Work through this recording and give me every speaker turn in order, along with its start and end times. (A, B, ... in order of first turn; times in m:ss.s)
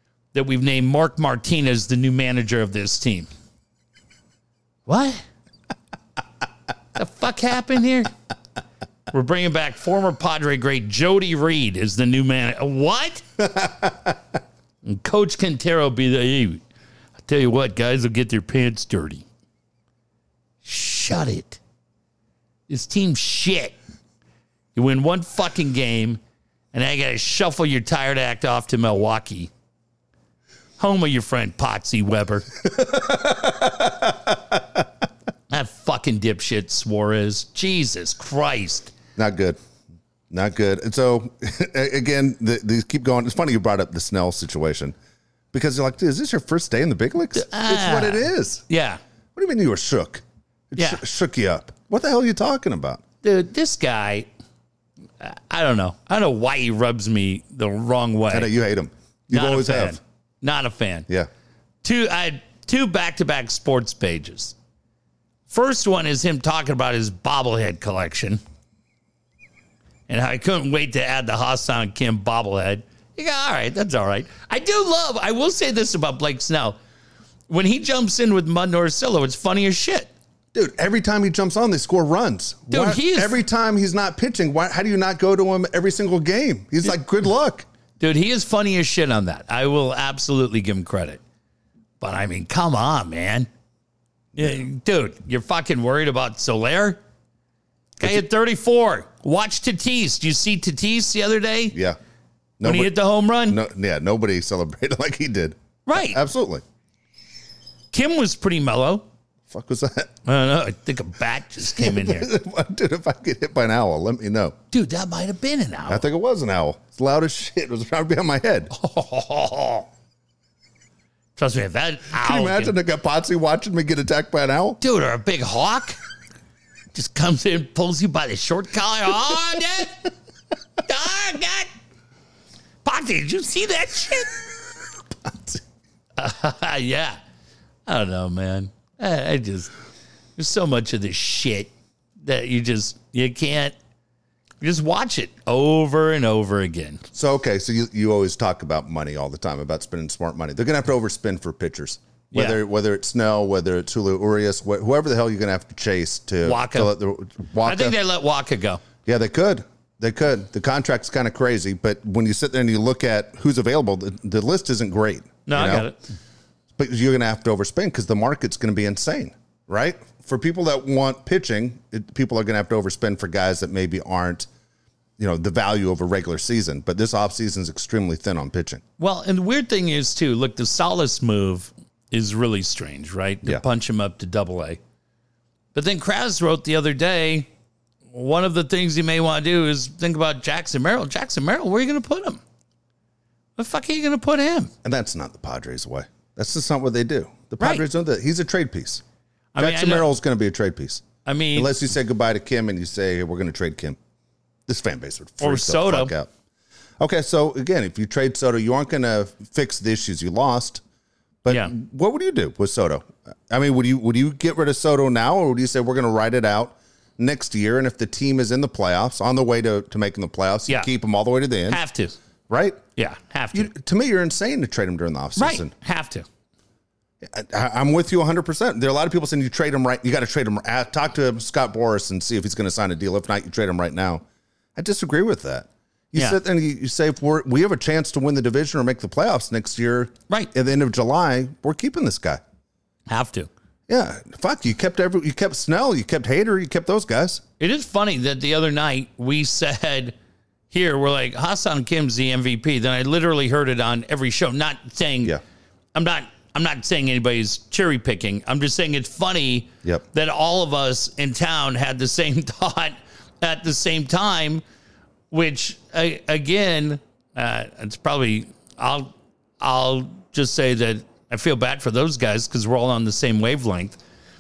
0:00.3-0:03.3 A
0:04.8-0:05.2 A
0:07.0-0:08.1 A
0:09.1-0:13.2 A
0:13.6-0:14.1 B
0:14.8-0:16.6 A
0:17.3-0:19.2 A
0:20.6-0:21.6 A
0:22.7-0:23.8 A
0:24.7-0:26.2 A
0:26.7-0:29.5 A
0:30.8-0:32.5 A
0:32.7-0:34.6 B
0:35.5-0:38.9 A
0:39.2-0:39.6 B
0:40.3-0:44.9 B
0:45.5-0:48.6 B
0:47.3-0:49.0 A
0:49.3-0:53.0 B
0:50.8-0:51.0 A
0:53.2-0:54.3 A
0:55.2-0:58.5 A
0:58.3-1:00.0 B
0:59.3-1:01.1 A
1:01.8-1:04.5 A
1:05.5-1:08.4 A
1:10.1-1:16.8 A
1:17.5-1:20.1 A
1:20.5-1:27.6 B
1:22.7-1:23.4 A
1:28.0-1:31.2 A
1:32.0-1:33.5 A
1:34.3-1:34.6 B
1:34.4-1:37.0 A
1:38.0-1:41.8 A
1:42.6-1:46.6 B
1:42.6-1:43.6 A
1:45.8-1:46.2 A
1:47.9-1:49.0 A
1:49.5-1:50.1 B
1:50.2-1:52.3 A
1:51.6-1:54.6 B
1:54.7-1:56.0 A
1:55.9-1:58.7 B
1:58.7-1:59.9 A
2:01.4-2:02.7 A
2:02.1-2:04.8 B
2:04.8-2:06.0 A
2:06.9-2:10.1 A
2:10.8-2:11.7 A
2:12.8-2:14.4 A
2:15.2-2:15.6 B
2:16.2-2:17.2 A
2:17.8-2:19.7 A
2:20.4-2:23.7 A
2:24.6-2:27.0 A
2:27.1-2:38.0 B
2:32.3-2:32.6 A
2:36.4-2:36.9 A
2:37.6-2:38.8 A
2:39.0-2:45.9 B
2:45.5-2:46.0 A
2:46.8-2:54.5 B
2:55.2-2:58.8 B
2:59.0-3:04.8 A
3:05.7-3:07.5 A
3:08.1-3:12.4 A
3:13.6-3:14.7 A
3:14.8-3:19.0 B
3:19.5-3:20.1 A
3:19.6-3:24.0 B
3:21.2-3:21.7 A
3:24.7-3:26.3 B
3:25.4-3:26.1 A
3:27.0-3:30.8 B
3:31.4-3:41.8 B
3:31.5-3:31.7 A
3:41.7-3:42.1 A
3:42.5-3:42.8 B
3:43.0-3:43.7 A
3:43.5-3:45.7 B
3:45.4-3:46.2 A
3:47.2-3:54.2 B
3:54.8-4:02.4 B
4:03.1-4:03.5 A
4:03.9-4:07.4 B
4:07.6-4:10.1 A
4:10.7-4:15.4 A
4:15.9-4:24.6 A
4:25.3-4:34.0 A